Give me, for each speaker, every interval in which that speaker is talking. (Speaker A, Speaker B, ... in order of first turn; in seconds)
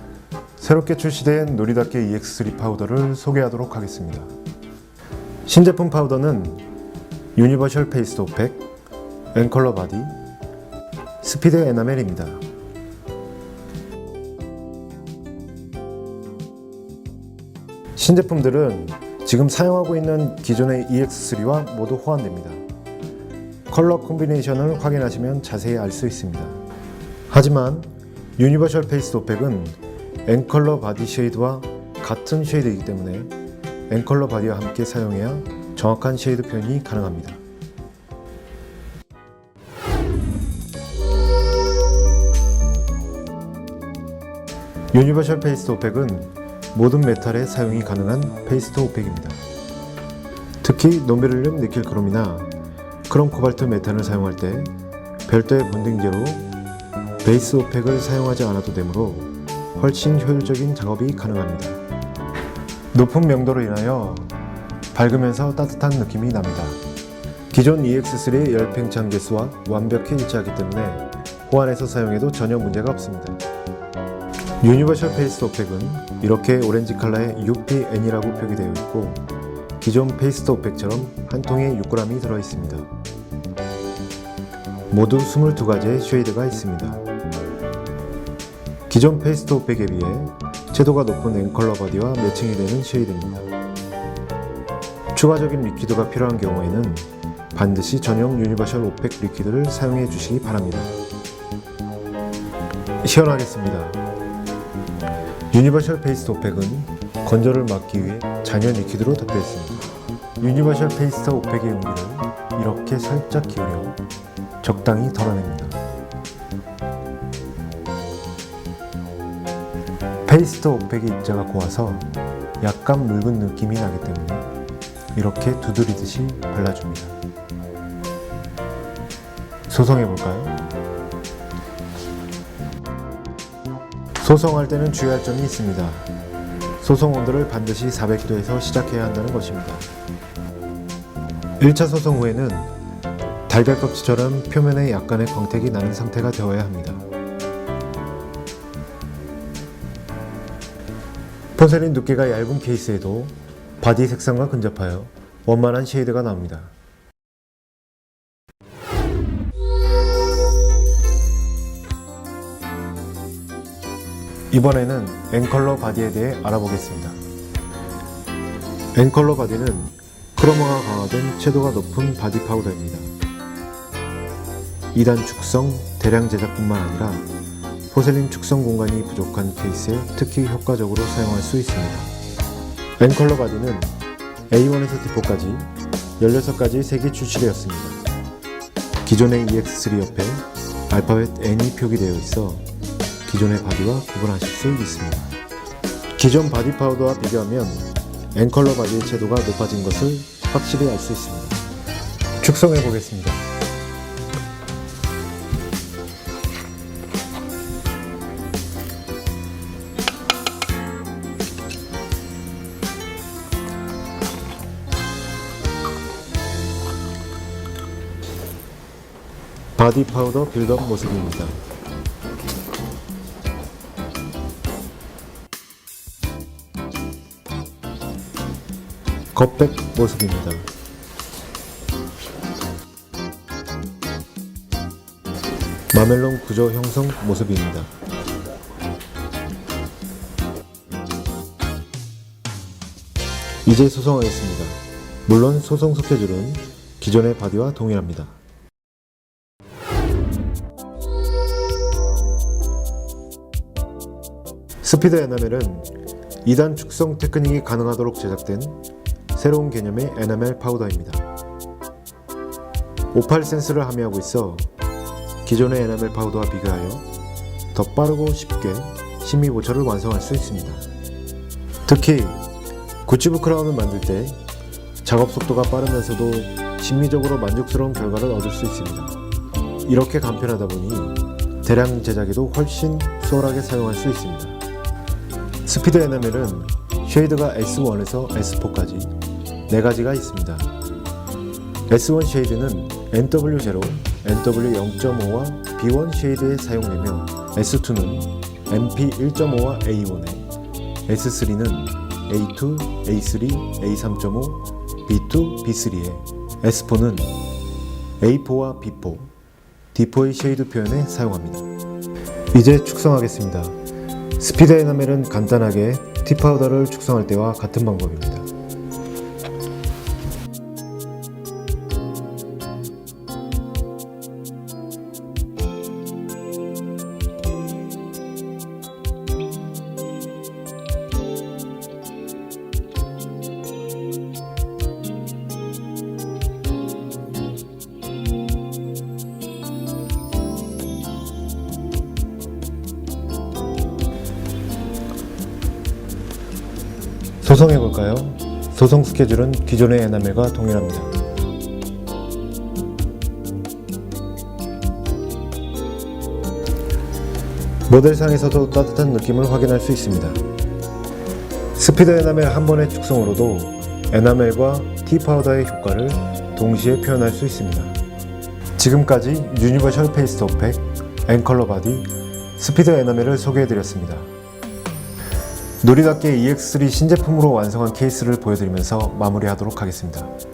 Speaker A: 0.6-4.3, 5.5-6.6, 7.3-8.6, 9.3-10.1, 11.2-12.4, 17.9-22.6, 23.7-26.6, 27.3-33.3, 33.9-37.4, 44.9-49.4, 50.6-52.5, 53.1-54.7, 55.3-56.5, 57.2-61.8, 62.9-64.3, 64.9-66.8, 67.5-73.4, 74.6-79.2, 79.8-82.9, 84.9-87.0, 88.9-93.5, 95.1-100.9, 103.0-104.0, 105.5-114.0, 114.6-115.8, 120.2-122.1, 122.6-124.5, 125.1-127.1, 129.7-130.6, 134.2-136.1, 136.8-139.9, 141.6-142.7, 143.5-147.0, 151.5-156.7, 164.5-167.2, 168.9-173.1, 174.9-177.3, 177.9-182.1, 183.0-183.9, 184.5-188.0, 189.0-192.7, 193.2-195.3, 196.2-201.6, 202.4-203.4, 219.8-221.6, 229.3-230.7, 235.9-237.9, 243.6-248.3, 254.8-255.9, 256.4-258.8, 259.3-261.2, 263.1-264.7, 265.4-267.1, 267.7-270.9, 271.9-272.4, 273.0-274.4, 275.0-279.1, 279.8-284.6, 285.6-289.1, 289.7-290.7, 291.9-300.5, 301.1-307.4, 308.2-309.3, 309.9-311.7, 312.5-313.8, 314.4-318.5, 347.4-351.1, 357.9-360.4, 361.7-367.9, 368.8-374.3, 375.8-380.3